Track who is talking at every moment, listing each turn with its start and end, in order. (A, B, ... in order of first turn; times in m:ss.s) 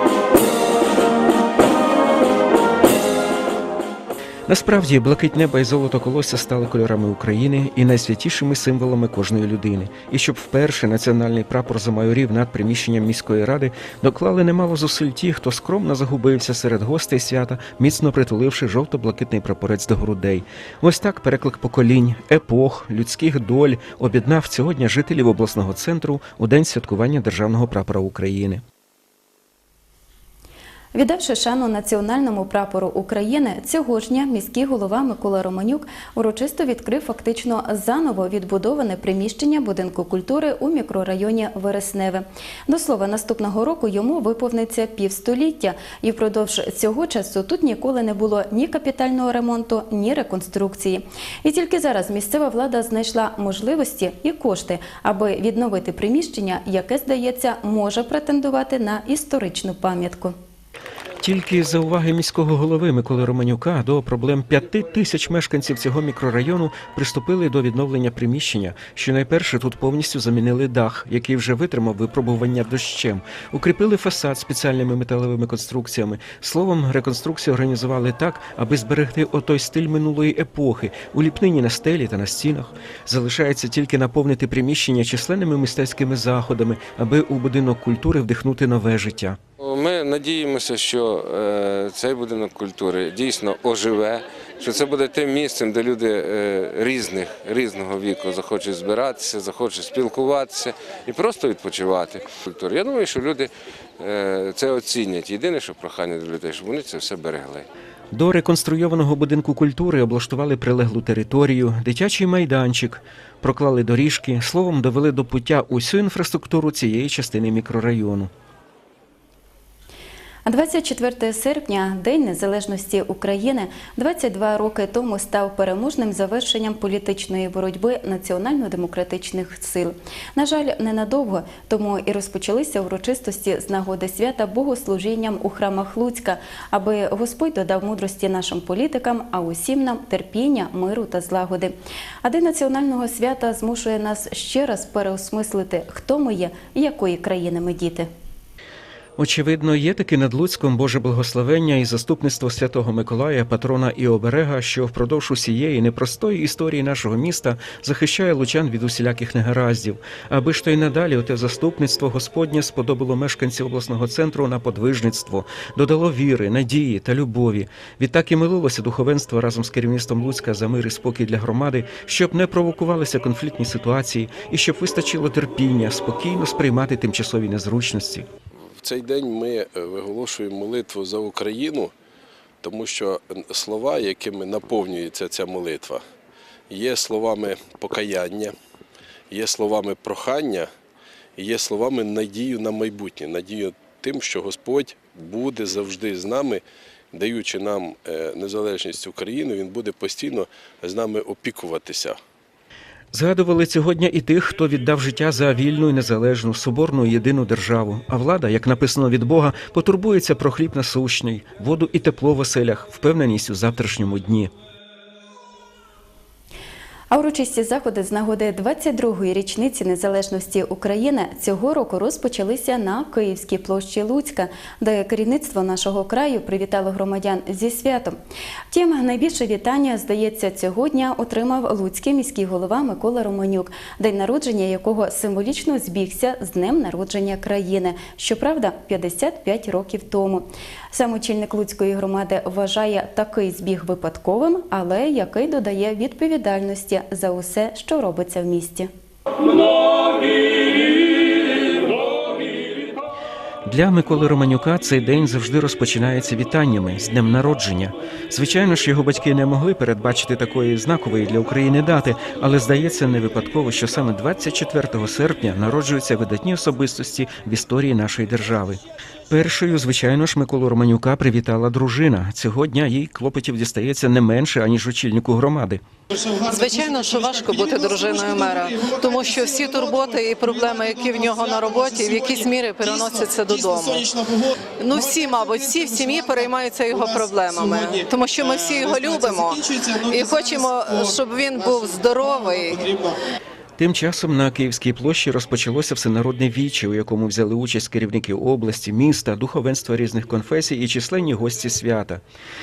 0:04.5-0:28.6 A
0:30.9-1:00.4 B
1:01.2-1:29.4 A
1:29.6-1:47.7 C
1:48.1-1:58.3 A
2:00.5-2:21.7 B
2:22.2-2:28.1 B
2:29.2-2:58.3 A
2:58.8-3:01.9 D
3:02.6-3:06.0 D
3:06.7-3:08.5 D
3:09.3-3:10.7 D
3:11.4-3:22.2 D
3:23.1-3:34.5 A
3:37.1-3:48.2 B
3:48.7-4:08.9 B
4:13.7-4:35.8 A
4:36.4-4:44.1 E
4:44.8-4:53.0 E
4:53.8-5:02.2 A